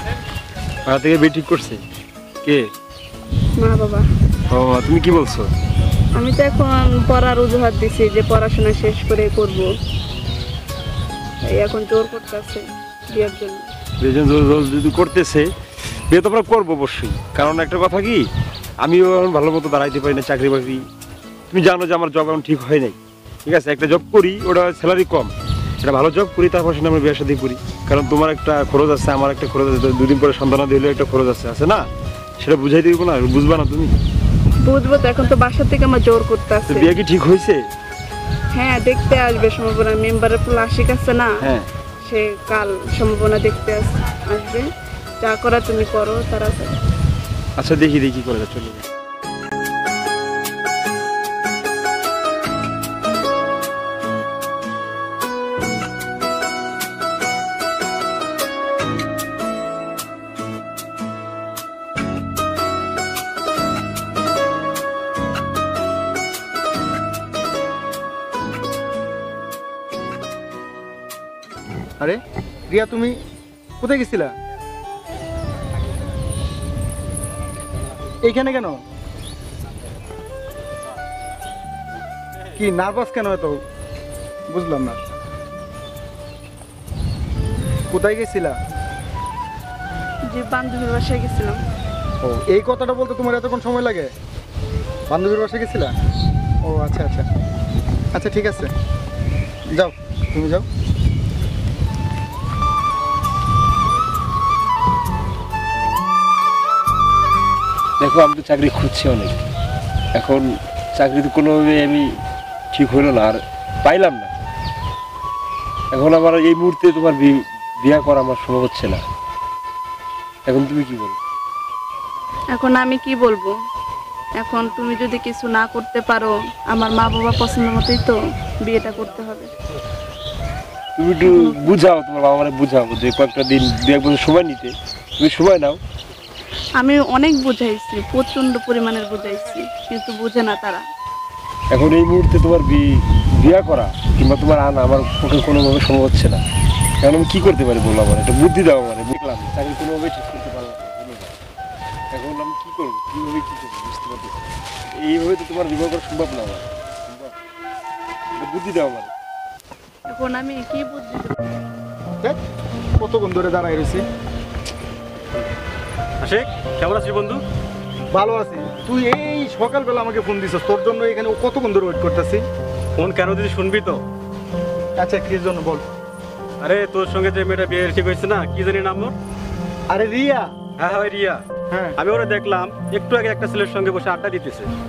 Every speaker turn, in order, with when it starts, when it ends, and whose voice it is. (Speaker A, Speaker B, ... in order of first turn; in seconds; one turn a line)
Speaker A: 0.9-1.8
Speaker B: 3.6-4.0
Speaker A: 4.5-5.5
Speaker B: 6.2-9.7
Speaker B: 11.4-13.7
Speaker A: 14.0-15.5
Speaker A: 16.1-18.2
Speaker A: 18.8-20.8
Speaker A: 21.5-31.9
Speaker A: 32.4-33.9
Speaker B: 34.6-36.9
Speaker A: 36.7-37.6
Speaker B: 38.5-41.5
Speaker A: 41.4-41.7
Speaker B: 42.0-44.7
Speaker B: 45.2-46.7
Speaker A: 47.6-48.9
Speaker C: 72.0-73.2
Speaker C: 73.8-74.3
Speaker C: 78.2-78.8
Speaker C: 82.6-83.6
Speaker C: 84.5-85.0
Speaker C: 87.9-88.6
Speaker B: 90.3-91.6
Speaker C: 92.2-94.1
Speaker C: 95.1-95.9
Speaker C: 96.7-97.3
Speaker C: 98.1-98.7
Speaker C: 99.8-100.7
Speaker A: 108.0-109.4
Speaker A: 110.2-112.1
Speaker A: 112.7-114.3
Speaker A: 115.9-119.0
Speaker A: 120.5-121.2
Speaker B: 122.5-123.5
Speaker B: 124.4-129.5
Speaker A: 131.0-135.8
Speaker B: 131.2-131.8
Speaker B: 136.8-140.8
Speaker A: 141.7-146.4
Speaker A: 147.0-151.3
Speaker A: 152.1-154.4
Speaker A: 155.0-157.3
Speaker A: 158.4-159.1
Speaker B: 160.1-161.4
Speaker C: 163.0-164.0
Speaker D: 166.2-167.4
Speaker C: 168.1-172.4
Speaker D: 173.0-174.0
Speaker C: 175.0-175.8
Speaker D: 176.6-179.2
Speaker C: 179.9-180.5
Speaker D: 180.8-181.4
Speaker D: 182.0-184.7